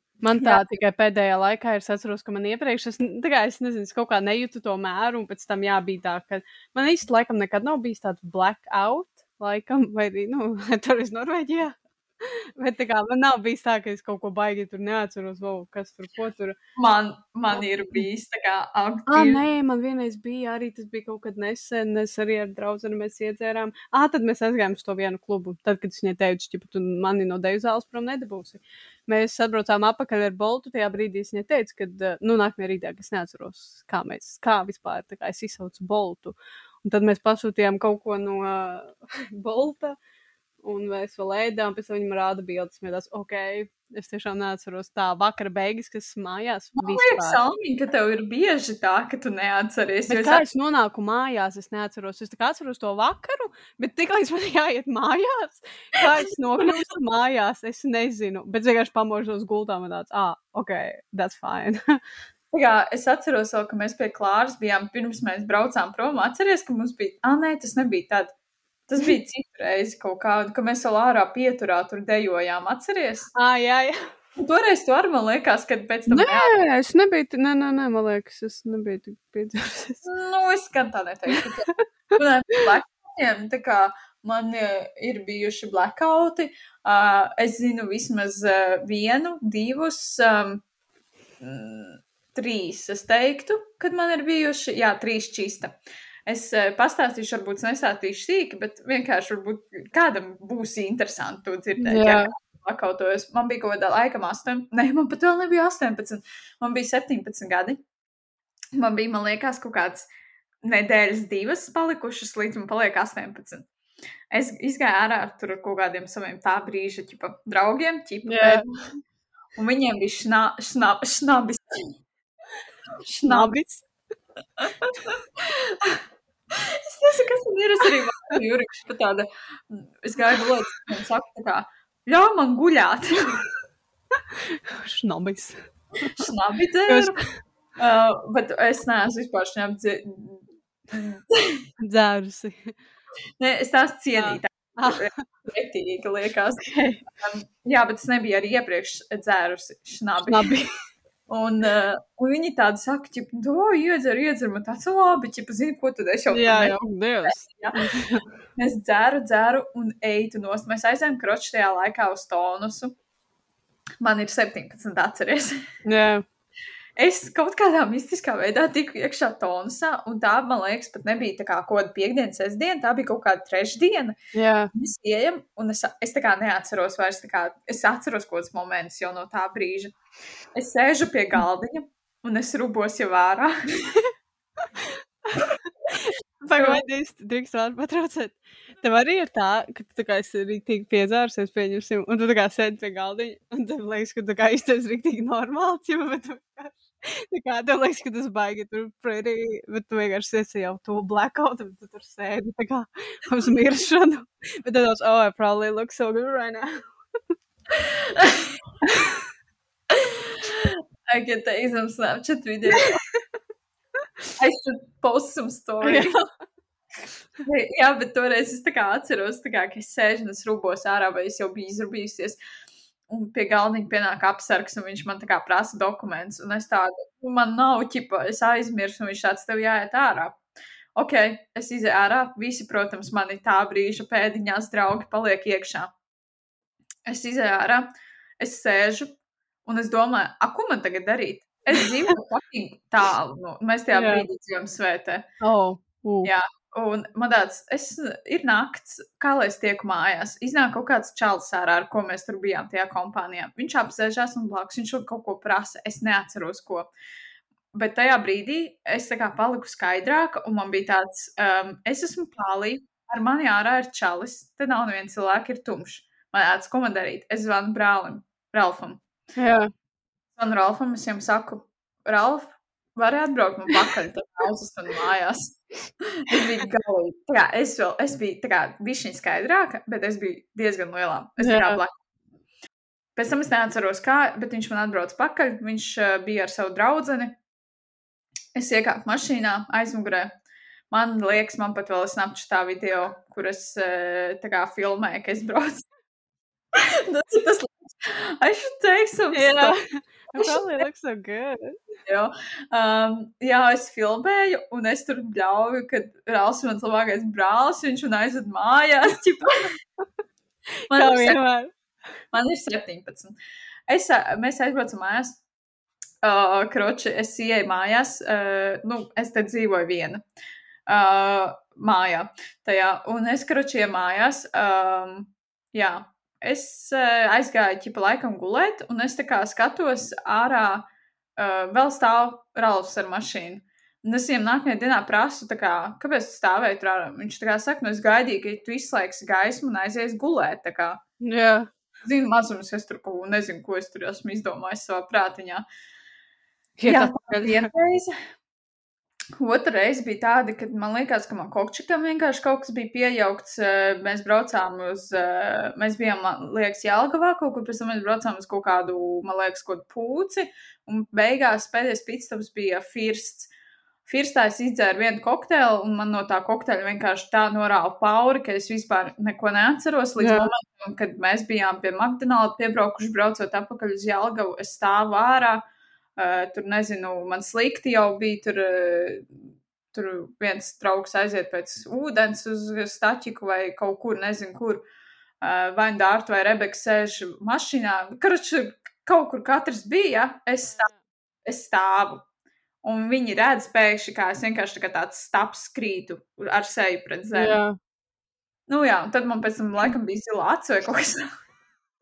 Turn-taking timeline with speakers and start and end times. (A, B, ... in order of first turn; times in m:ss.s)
0:00.2-0:16.5 A
0:16.8-0:19.4 B
0:19.1-0:40.0 A
0:40.6-0:47.4 A
0:46.8-0:50.4 B
0:50.1-1:02.0 A
1:02.5-1:08.3 B
1:08.9-1:13.3 B
1:13.3-1:14.1 A
1:14.4-1:16.6 B
1:16.1-1:20.0 A
1:20.0-1:30.6 B
1:21.4-1:21.8 A
1:31.4-1:35.7 B
1:36.3-1:47.8 B
1:41.8-1:42.3 A
1:48.7-1:50.0 B
1:50.6-1:53.7 B
1:54.3-1:58.6 B
1:58.2-1:58.6 A
1:59.6-2:01.8 B
2:03.0-2:03.6 B
2:03.3-2:03.8 A
2:04.6-2:06.0 B
2:06.5-2:13.4 B
2:14.3-2:15.6 A
2:16.2-2:17.2 B
2:16.9-2:17.2 A
2:17.8-2:21.6 B
2:21.8-2:22.7 A
2:23.4-2:30.5 B
2:24.2-2:25.2 A
2:30.3-2:30.7 A
2:31.3-2:37.7 B
2:36.3-2:38.2 A
2:38.6-2:42.9 B
2:44.0-2:45.6 B
2:45.8-2:46.2 A
2:47.0-2:54.1 B
2:54.3-2:54.7 A
2:54.7-2:59.9 B
3:00.5-3:03.5 B
3:05.9-3:26.9 A
3:06.6-3:06.8 B
3:27.7-3:28.5 B
3:29.9-3:32.8 B
3:34.4-3:36.2 B
3:35.8-3:36.2 A
3:37.4-3:42.4 B
3:43.1-3:50.4 B
3:51.0-3:55.9 B
3:57.0-3:57.9 B
3:58.4-3:59.1 B
3:59.6-4:05.2 B
4:03.9-4:04.2 A
4:05.4-4:06.3 A
4:06.2-4:16.9 B
4:17.7-4:29.0 B
4:29.4-4:29.7 A
4:30.4-4:41.9 B
4:41.4-4:41.8 A
4:43.2-4:47.4 B
4:48.5-4:50.3 B
4:50.9-4:55.8 B
4:56.7-4:59.8 B
4:59.3-5:01.8 A
5:00.3-5:00.8 B
5:02.0-5:09.7 B
5:10.9-5:11.7 A
5:10.9-5:11.4 B
5:12.3-5:13.3 B
5:13.9-5:15.4 B
5:16.2-5:20.2 B
5:20.9-5:30.8 B
5:31.4-5:41.0 B
5:41.2-5:41.7 A
5:42.0-5:45.6 B
5:46.8-5:47.7 A
5:46.9-5:48.1 B
5:49.4-6:03.5 B
6:04.0-6:15.6 B
6:10.2-6:10.5 A
6:16.2-6:19.3 B
6:19.9-6:24.8 B
6:25.4-6:30.9 B
6:31.4-6:32.2 B
6:32.8-6:37.6 B
6:37.3-6:37.7 A
6:38.7-6:41.2 B